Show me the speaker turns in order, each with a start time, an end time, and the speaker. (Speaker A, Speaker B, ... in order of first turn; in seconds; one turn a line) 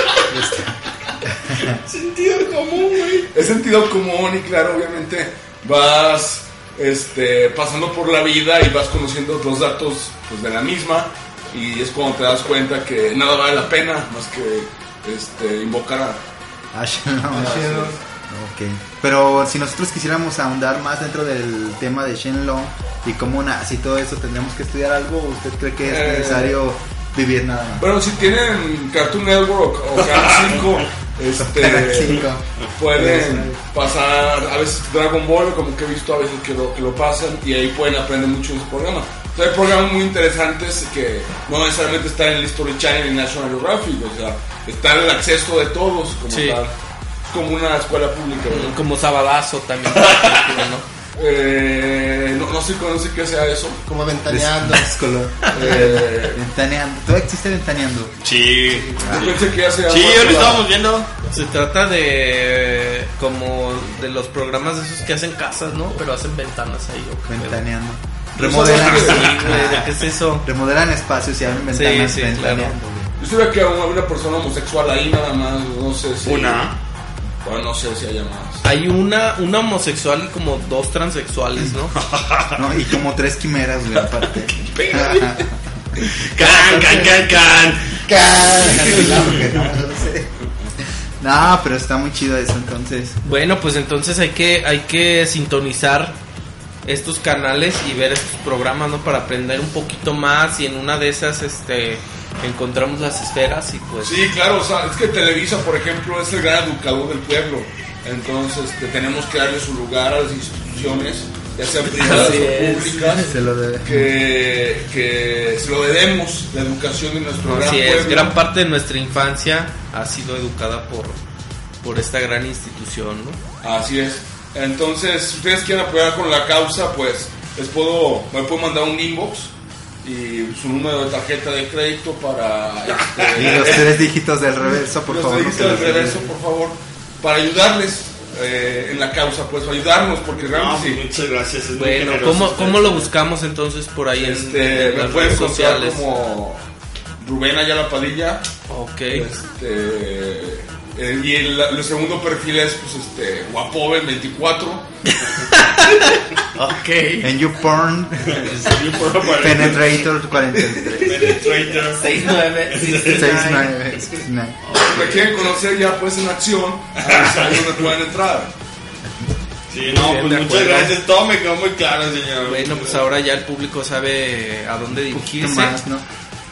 Speaker A: 0.3-1.8
Speaker B: 1.8-3.3
Speaker C: 3.3-16.2
Speaker A: 16.7-17.7
Speaker D: 17.3-18.0
Speaker C: 17.3-18.0
Speaker A: 18.3-27.9
Speaker C: 25.8-26.6
Speaker C: 27.8-46.7
Speaker B: 30.1-30.6
Speaker A: 31.4-33.6
Speaker E: 46.3-46.6
Speaker C: 47.3-48.8
Speaker E: 48.5-50.9
Speaker B: 50.0-50.3
Speaker C: 51.1-53.8
Speaker D: 53.9-54.9
Speaker A: 54.3-58.1
Speaker C: 55.5-56.4
Speaker B: 58.2-61.1
Speaker D: 58.7-59.1
Speaker C: 59.1-60.7
Speaker E: 61.3-67.6
Speaker A: 67.3-69.9
Speaker C: 68.4-69.3
Speaker E: 68.4-70.5
Speaker A: 70.4-73.1
Speaker E: 71.7-72.8
Speaker C: 73.2-76.7
Speaker B: 76.2-76.7
Speaker C: 77.4-78.6
Speaker E: 78.6-82.0
Speaker B: 81.9-82.6
Speaker A: 82.5-85.7
Speaker B: 84.7-85.3
Speaker B: 86.0-88.0
Speaker A: 86.4-87.0
Speaker A: 88.0-90.3
Speaker B: 89.0-89.4
Speaker A: 91.2-93.2
Speaker E: 93.2-96.2
Speaker E: 96.8-104.3
Speaker C: 104.0-118.4
Speaker E: 111.9-113.3
Speaker A: 113.3-114.1
Speaker E: 117.4-121.2
Speaker E: 121.8-123.4
Speaker C: 123.6-129.5
Speaker C: 130.0-133.9
Speaker B: 133.1-133.7
Speaker A: 133.3-136.3
Speaker C: 135.1-141.0
Speaker B: 140.5-143.1
Speaker E: 141.8-146.0
Speaker C: 144.2-146.6
Speaker C: 147.2-148.4
Speaker E: 148.7-149.3
Speaker C: 149.1-154.8
Speaker E: 155.3-157.3
Speaker A: 157.2-158.7
Speaker B: 158.3-159.9
Speaker A: 159.3-161.4
Speaker B: 161.0-162.1
Speaker E: 161.9-163.7
Speaker B: 162.7-163.5
Speaker A: 163.1-164.6
Speaker B: 164.6-165.5
Speaker C: 164.7-168.5
Speaker B: 167.0-167.8
Speaker B: 169.7-173.1
Speaker E: 169.8-171.0
Speaker E: 172.4-175.8
Speaker A: 174.9-176.1